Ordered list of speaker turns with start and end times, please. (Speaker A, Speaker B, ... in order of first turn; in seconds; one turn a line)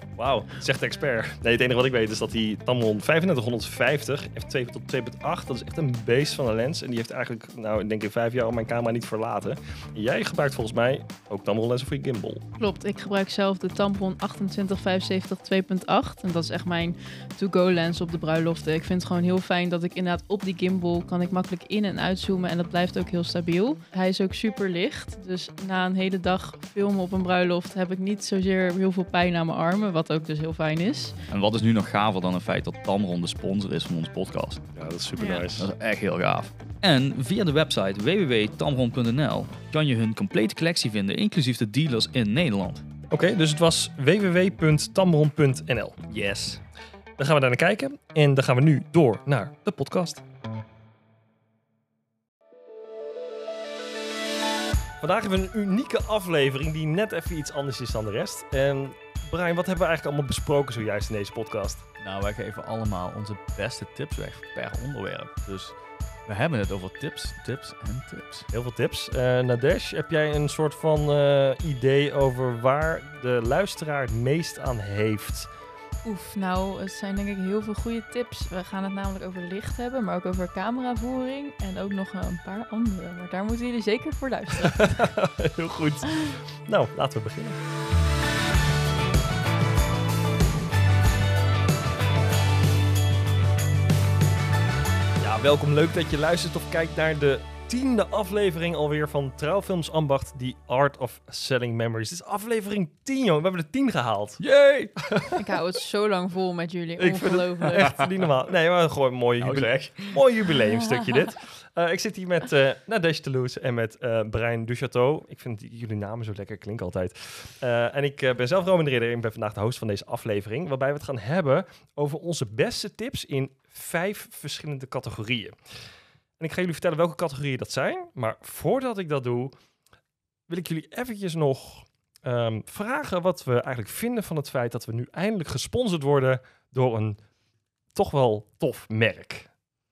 Speaker A: 0.1-12.4
Speaker B: 12.6-31.2
Speaker C: 31.3-34.7
Speaker A: 34.8-35.7
Speaker B: 35.1-35.5
Speaker C: 35.5-42.8
Speaker A: 43.1-46.0
Speaker C: 46.1-46.6
Speaker A: 47.2-50.2
Speaker A: 55.0-61.9
Speaker C: 62.0-68.5
Speaker A: 68.5-75.5
Speaker B: 76.0-85.1
Speaker A: 84.7-87.6
Speaker A: 95.2-104.4
Speaker C: 104.4-105.1
Speaker B: 105.3-108.0
Speaker A: 107.0-129.5
Speaker C: 109.4-110.2
Speaker A: 130.5-137.3
Speaker A: 137.9-139.5